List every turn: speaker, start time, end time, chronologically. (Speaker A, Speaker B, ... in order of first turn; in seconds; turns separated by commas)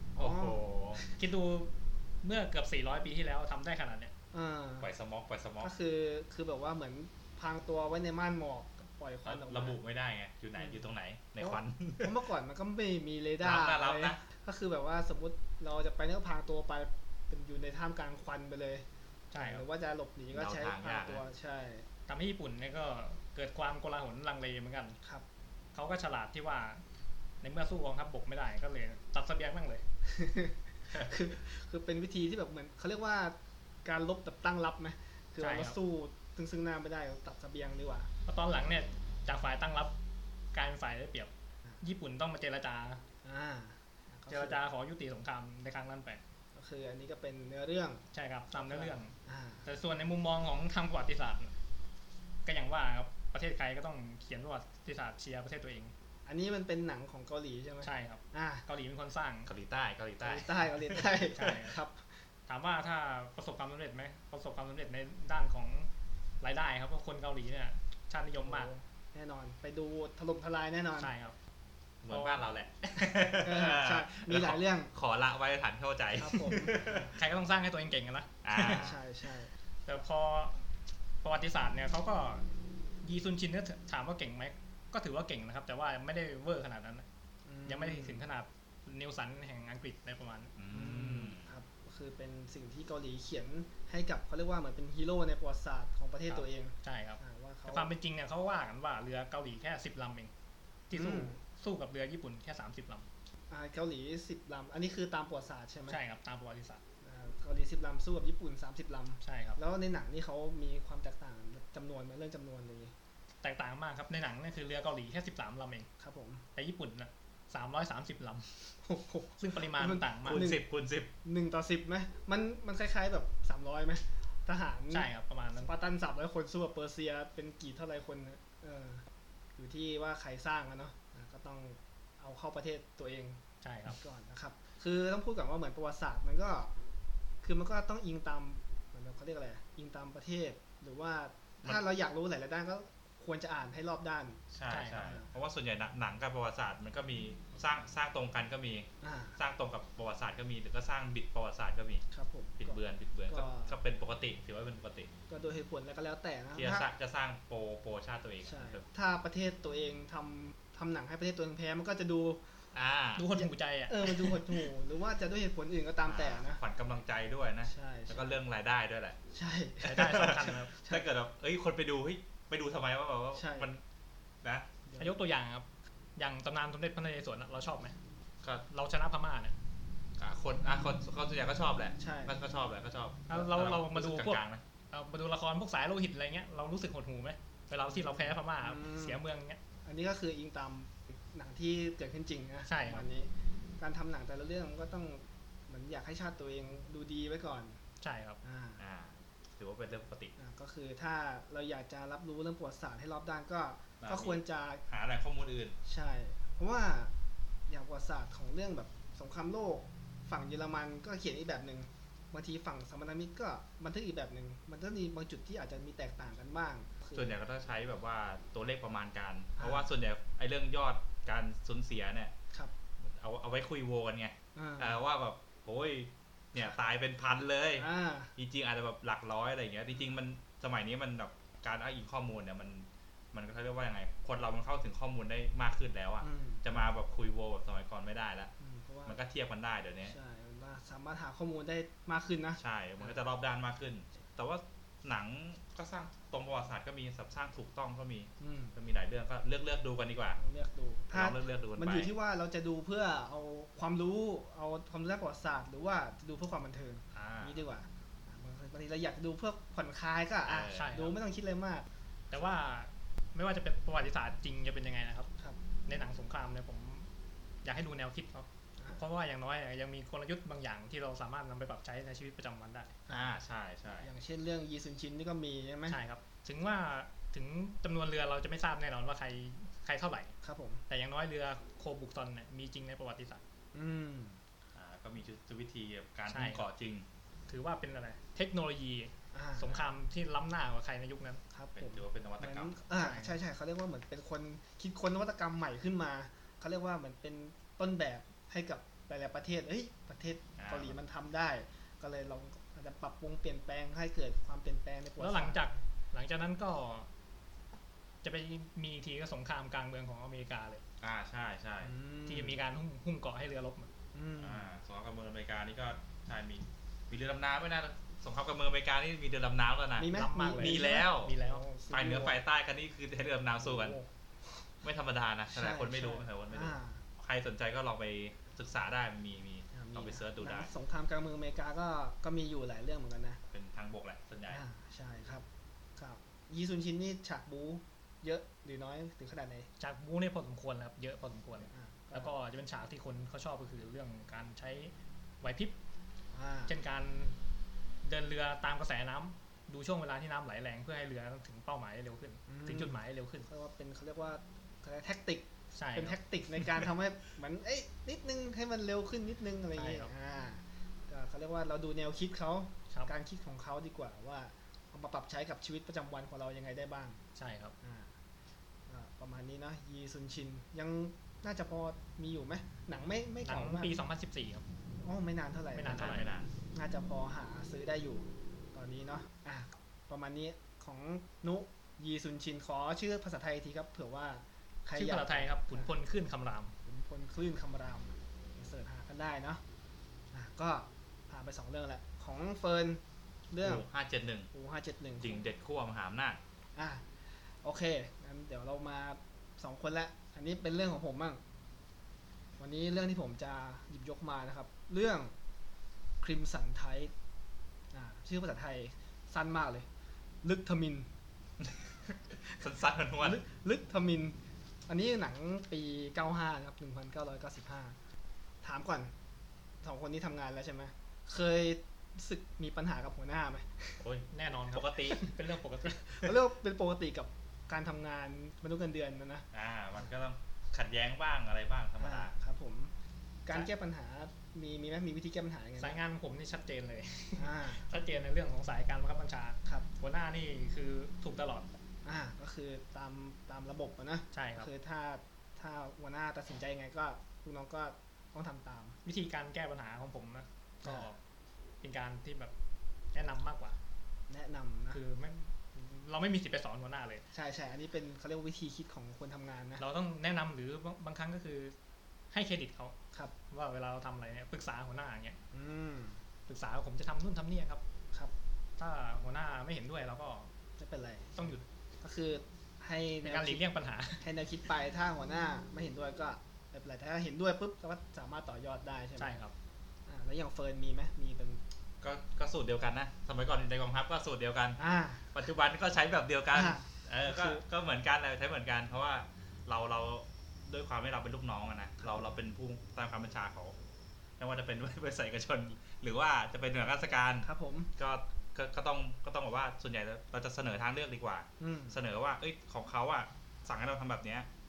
Speaker A: 0.1-1.1, Speaker B: 0.2-1.0, Speaker C: 1.1-4.1, Speaker A: 4.3-4.9, Speaker B: 4.8-5.7, Speaker A: 5.6-9.8, Speaker B: 9.2-12.2, Speaker A: 10.6-10.9, Speaker A: 11.4-21.9, Speaker B: 13.4-14.2, Speaker C: 19.3-19.6, Speaker B: 20.3-21.2, Speaker C: 22.1-25.0, Speaker C: 25.7-26.8, Speaker C: 27.4-29.8, Speaker A: 30.1-38.1, Speaker C: 35.4-35.8, Speaker C: 38.3-40.0, Speaker C: 40.5-43.0, Speaker A: 43.2-44.6, Speaker C: 44.3-46.2, Speaker A: 46.5-49.7, Speaker C: 48.1-49.1, Speaker C: 49.6-51.5, Speaker C: 52.5-55.9, Speaker A: 56.3-58.6, Speaker C: 57.8-59.5, Speaker B: 59.5-61.1, Speaker A: 60.2-62.2, Speaker C: 61.3-61.8, Speaker C: 62.5-65.9, Speaker C: 66.4-68.7, Speaker A: 68.4-71.1, Speaker C: 71.0-71.3, Speaker B: 72.0-77.1, Speaker C: 72.1-72.4, Speaker A: 73.2-74.9, Speaker A: 76.2-77.1, Speaker C: 77.2-78.9, Speaker B: 78.4-79.0, Speaker A: 78.6-79.5, Speaker C: 79.9-80.6, Speaker C: 81.2-82.5, Speaker C: 83.0-87.1, Speaker A: 87.5-88.2, Speaker C: 87.7-90.5, Speaker B: 90.6-91.5, Speaker A: 90.7-97.9, Speaker C: 96.3-100.3, Speaker C: 100.9-103.1, Speaker A: 100.9-101.4, Speaker A: 103.5-106.0, Speaker C: 105.9-106.8, Speaker A: 107.0-112.9, Speaker C: 109.2-109.6, Speaker C: 113.4-115.9, Speaker A: 116.0-116.4, Speaker C: 116.5-118.7, Speaker A: 118.8-120.7, Speaker C: 119.4-120.5, Speaker B: 120.2-121.1, Speaker A: 121.2-129.0, Speaker C: 124.9-125.7, Speaker A: 129.6-136.7, Speaker C: 133.6-134.0, Speaker A: 137.4-144.4, Speaker B: 144.5-152.0, Speaker C: 144.7-145.1, Speaker A: 144.9-145.3, Speaker A: 149.0-149.4, Speaker A: 152.1-153.8, Speaker B: 152.6-155.1, Speaker A: 155.3-156.9, Speaker B: 156.6-158.9, Speaker A: 158.4-162.4, Speaker B: 162.7-163.3, Speaker C: 163.2-164.4, Speaker A: 163.3-166.6, Speaker B: 166.1-169.2, Speaker A: 167.7-168.4, Speaker A: 169.3-171.1, Speaker B: 169.8-173.8, Speaker C: 169.8-170.7, Speaker A: 173.3-173.7, Speaker B: 174.4-174.7, Speaker A: 174.9-175.2, Speaker C: 175.0-175.7, Speaker C: 176.2-177.9, Speaker C: 178.7-179.6, Speaker B: 180.2-184.6, Speaker A: 182.0-182.4, Speaker C: 183.3-189.6, Speaker A: 187.9-189.2, Speaker A: 189.8-197.8, Speaker C: 192.7-193.1, Speaker C: 198.0-198.4, Speaker A: 198.4-198.8, Speaker B: 198.8-200.3, Speaker A: 200.4-204.8, Speaker B: 204.0-205.8, Speaker A: 205.9-207.1, Speaker A: 207.7-217.3, Speaker B: 217.1-222.3, Speaker A: 219.6-219.9, Speaker B: 223.0-238.5, Speaker A: 224.6-225.0, Speaker A: 227.8-228.3, Speaker A: 236.2-236.7, Speaker A: 238.6-239.2, Speaker B: 239.1-240.2, Speaker A: 240.1-243.2, Speaker B: 242.6-250.4, Speaker A: 248.4-248.8, Speaker A: 250.4-261.9, Speaker B: 251.1-252.1, Speaker B: 257.1-257.6, Speaker B: 260.5-261.1, Speaker C: 260.7-261.1, Speaker C: 262.3-265.3, Speaker C: 265.9-267.1, Speaker C: 267.6-272.9, Speaker A: 273.1-273.3, Speaker B: 273.1-274.1, Speaker A: 274.0-276.0, Speaker C: 275.9-280.3, Speaker A: 280.4-280.8, Speaker C: 280.9-283.4, Speaker A: 283.7-284.4, Speaker B: 284.7-287.1, Speaker C: 286.3-286.7, Speaker C: 287.5-291.4, Speaker A: 289.3-289.8, Speaker A: 291.5-305.7, Speaker B: 291.8-292.8, Speaker C: 292.9-293.4, Speaker B: 300.6-301.0, Speaker C: 305.2-307.1, Speaker C: 308.2-310.8, Speaker B: 311.0-311.9, Speaker A: 311.8-312.6, Speaker C: 312.3-313.9, Speaker A: 314.1-314.7, Speaker B: 314.4-321.4, Speaker A: 320.0-322.4, Speaker C: 320.1-321.6, Speaker B: 321.9-324.0, Speaker A: 323.6-324.7, Speaker B: 324.8-330.7, Speaker A: 325.5-327.0, Speaker A: 329.7-333.4, Speaker B: 333.5-334.6, Speaker A: 334.5-335.4, Speaker A: 336.0-339.7, Speaker C: 339.8-345.8, Speaker A: 341.7-342.3, Speaker A: 346.3-346.7, Speaker C: 346.7-347.4, Speaker C: 348.0-353.5, Speaker A: 352.5-367.2, Speaker C: 355.7-356.2, Speaker C: 359.8-360.1, Speaker C: 367.4-367.8, Speaker A: 367.8-368.1, Speaker A: 368.9-373.9, Speaker C: 373.4-374.6, Speaker A: 375.0-385.9, Speaker C: 375.8-376.3, Speaker B: 375.9-376.5, Speaker C: 384.9-386.8, Speaker A: 386.9-389.6, Speaker A: 390.3-393.9, Speaker B: 393.6-394.5, Speaker A: 394.5-395.4, Speaker B: 395.2-396.4, Speaker A: 396.8-397.1, Speaker A: 397.6-401.4, Speaker A: 402.6-405.3, Speaker A: 406.2-407.1, Speaker A: 407.9-409.9, Speaker A: 410.4-411.1, Speaker B: 411.6-413.4, Speaker A: 413.2-414.4, Speaker A: 414.9-418.0, Speaker A: 418.6-419.1, Speaker A: 419.8-424.0, Speaker B: 424.0-425.2, Speaker C: 424.3-426.2, Speaker A: 426.1-429.5, Speaker B: 429.5-432.3, Speaker A: 432.0-432.9, Speaker A: 433.5-436.0, Speaker C: 435.8-441.7, Speaker A: 437.4-437.9, Speaker A: 442.1-449.0, Speaker C: 444.3-444.7, Speaker C: 449.0-451.2, Speaker A: 450.8-451.1, Speaker C: 451.8-452.5, Speaker C: 453.1-453.8, Speaker A: 454.3-455.0, Speaker C: 454.9-457.2, Speaker A: 457.3-459.8, Speaker C: 459.8-461.8, Speaker C: 462.3-463.0, Speaker C: 463.5-465.4, Speaker A: 465.5-466.2, Speaker C: 466.5-467.8, Speaker C: 468.8-470.5, Speaker A: 470.8-473.6, Speaker C: 471.4-471.6, Speaker C: 473.2-474.3, Speaker A: 474.2-479.3, Speaker C: 479.2-479.5, Speaker A: 480.1-481.6, Speaker B: 482.0-484.8, Speaker A: 484.8-485.3, Speaker B: 485.3-493.8, Speaker A: 486.5-487.6, Speaker A: 492.0-492.4, Speaker B: 494.4-504.5, Speaker A: 497.4-497.9, Speaker A: 501.6-502.0